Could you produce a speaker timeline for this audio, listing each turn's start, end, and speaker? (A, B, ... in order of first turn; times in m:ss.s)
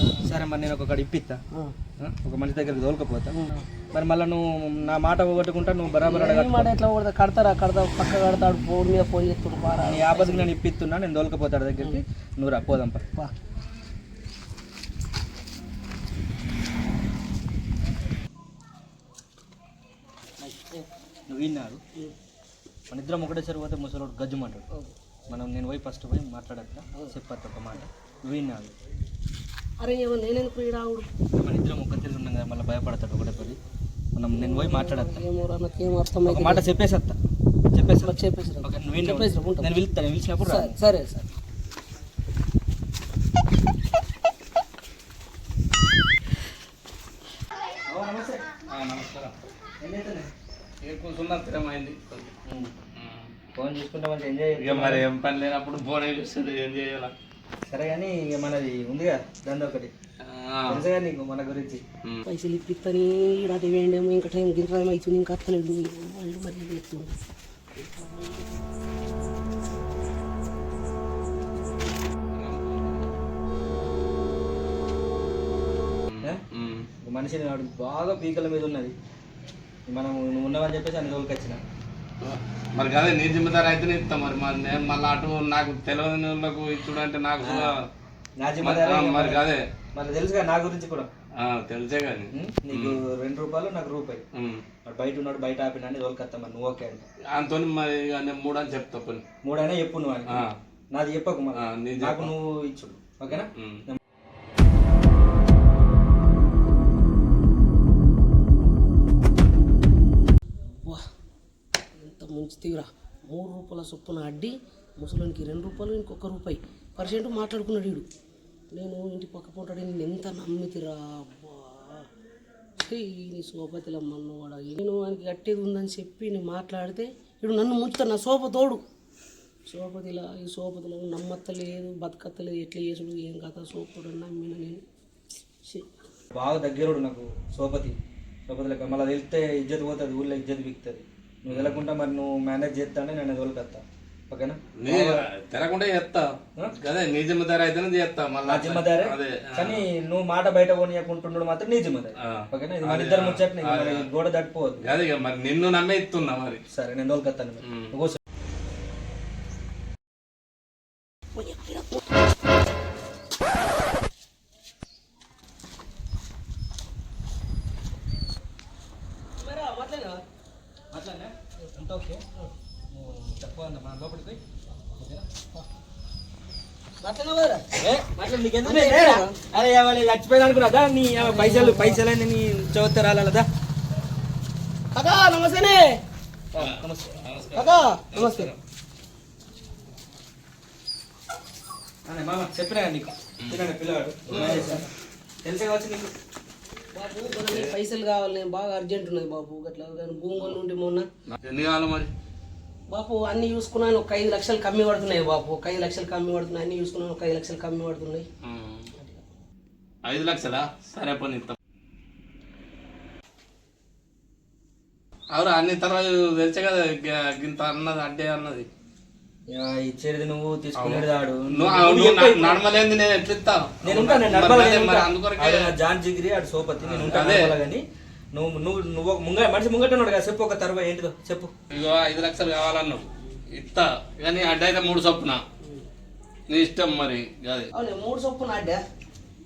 0:00.2-0:01.4 A
0:02.0-0:03.3 A
0:03.3-0:03.6 B
0:03.9-0:06.7 A
0:06.0-0:10.5 B
0:09.8-0:13.0 A
0:21.3-0:21.8 A
0:22.9-0:24.7 A
0:25.3-0:28.7 A
0:29.8-0:31.1 B
0:31.3-0:33.6 A
0:34.2-0:35.2 A
0:34.4-0:36.6 B
0:36.3-0:37.2 A
0:37.7-0:40.8 A
0:38.0-0:39.7 B
0:40.4-0:41.3 B
0:47.9-0:48.5 A
0:48.7-0:49.3 C
0:49.8-0:50.3 A
0:50.8-0:52.3 C
0:52.5-0:52.7 A
0:53.0-0:53.3 C
0:53.6-0:55.1 A
0:54.6-0:57.1 C
0:57.7-0:59.9 A
1:00.2-1:00.8 C
1:00.7-1:01.8 A
1:02.2-1:07.1 B
1:16.1-1:16.8 C
1:17.0-1:19.0 A
1:19.9-1:21.6 A
1:22.2-1:27.7 C
1:27.4-1:27.7 A
1:28.4-1:31.1 A
1:28.6-1:29.6 C
1:31.4-1:33.0 C
1:32.3-1:34.2 A
1:34.4-1:34.6 C
1:34.8-1:37.1 A
1:37.3-1:39.2 C
1:39.4-1:44.0 A
1:41.6-1:42.3 C
1:52.0-1:58.0 B
1:58.7-2:02.0 B
2:02.9-2:08.8 B
2:09.7-2:14.8 B
2:16.3-2:25.3 A
2:21.5-2:21.8 C
2:24.8-2:29.8 C
2:28.4-2:34.8 A
2:32.2-2:34.1 C
2:34.8-2:36.6 C
2:36.7-2:38.2 A
2:37.6-2:37.9 C
2:41.4-2:42.0 B
2:49.4-2:50.2 B
2:50.9-2:52.2 A
2:52.9-2:54.4 A
2:55.0-2:55.2 A
2:57.0-2:57.7 B
2:57.8-3:03.5 A
2:58.6-2:59.3 B
3:01.2-3:02.0 B
3:04.9-3:06.0 B
3:06.5-3:07.2 A
3:06.6-3:08.6 C
3:07.5-3:08.5 B
3:12.1-3:14.9 A
3:14.3-3:14.6 C
3:15.4-3:16.1 A
3:16.9-3:21.1 B
3:17.4-3:17.7 C
3:21.4-3:22.1 C
3:22.9-3:28.3 B
3:28.4-3:28.9 C
3:30.0-3:31.6 C
3:35.3-3:38.7 C
3:39.5-3:42.6 A
3:40.8-3:45.7 C
3:43.8-3:51.5 A
3:46.8-3:47.6 C
3:51.7-3:55.4 C
3:56.5-3:57.7 C
3:57.7-3:58.8 B